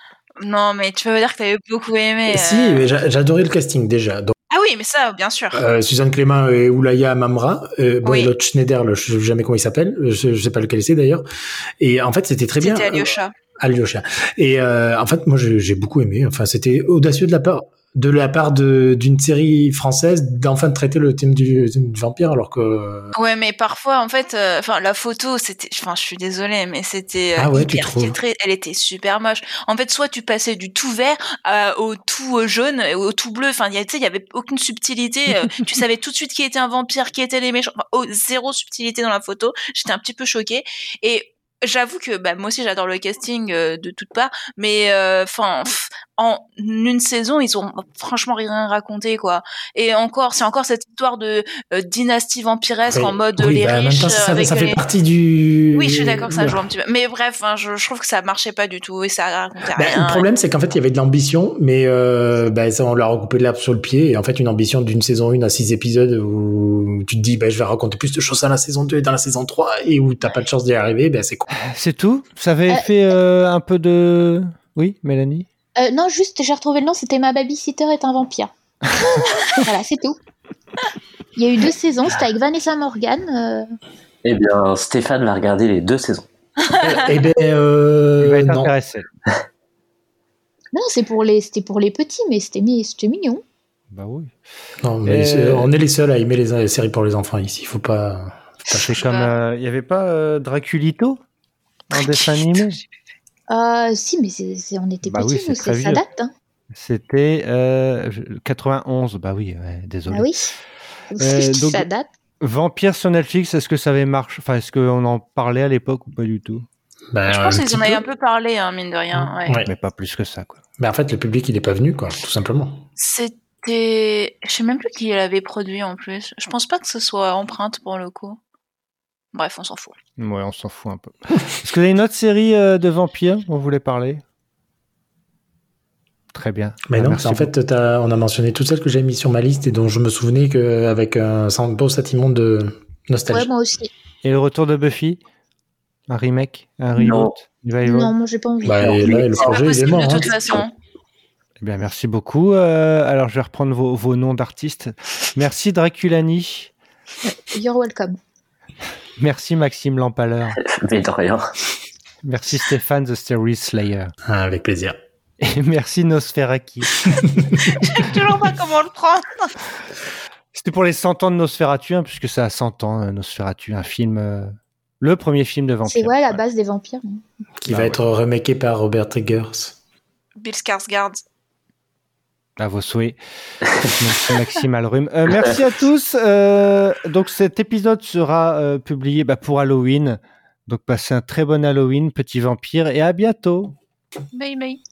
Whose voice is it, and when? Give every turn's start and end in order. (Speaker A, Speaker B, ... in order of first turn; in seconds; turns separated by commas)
Speaker A: 0.4-2.9, Speaker B: 2.3-4.3, Speaker A: 4.5-5.6, Speaker B: 5.5-11.2, Speaker A: 8.0-8.3, Speaker B: 11.8-23.1, Speaker A: 12.6-13.3, Speaker A: 23.1-54.8, Speaker B: 27.4-28.2, Speaker B: 52.9-56.6, Speaker A: 55.7-60.2, Speaker B: 59.7-71.5, Speaker C: 71.5-75.5, Speaker D: 75.8-78.5, Speaker D: 79.0-80.2, Speaker D: 81.3-83.7, Speaker E: 84.2-86.3, Speaker A: 86.7-86.9, Speaker B: 86.8-88.7, Speaker C: 88.2-89.0, Speaker D: 90.7-93.4, Speaker C: 93.9-94.3, Speaker B: 94.8-98.9, Speaker C: 95.0-95.7, Speaker A: 98.6-99.3, Speaker C: 98.8-101.2, Speaker C: 101.9-102.8, Speaker D: 103.5-106.3, Speaker C: 105.0-106.0, Speaker C: 106.7-110.3, Speaker D: 110.1-110.5, Speaker D: 111.1-112.1, Speaker C: 111.2-111.8, Speaker C: 112.4-116.7, Speaker B: 117.1-118.0, Speaker A: 117.3-119.6, Speaker B: 119.4-119.7, Speaker C: 119.6-120.6, Speaker B: 120.8-122.8, Speaker A: 123.0-128.4, Speaker A: 129.3-130.0, Speaker C: 130.2-134.2, Speaker C: 136.3-137.5, Speaker B: 136.9-143.5, Speaker D: 143.3-143.9, Speaker C: 144.2-145.2, Speaker C: 146.1-148.1, Speaker E: 146.9-147.3, Speaker D: 147.8-149.0, Speaker B: 148.6-150.6, Speaker E: 148.7-150.6, Speaker A: 149.4-150.7, Speaker C: 151.6-156.7, Speaker D: 157.3-158.2, Speaker C: 159.2-160.6, Speaker E: 160.6-161.5, Speaker C: 162.2-164.1, Speaker B: 164.2-164.9, Speaker C: 165.4-167.1, Speaker A: 167.7-169.5, Speaker C: 170.5-176.4, Speaker D: 175.9-177.2, Speaker B: 177.6-179.8, Speaker C: 177.7-178.0, Speaker A: 180.4-181.2, Speaker C: 182.6-183.2, Speaker C: 183.8-193.7, Speaker E: 185.3-185.6, Speaker A: 194.3-194.8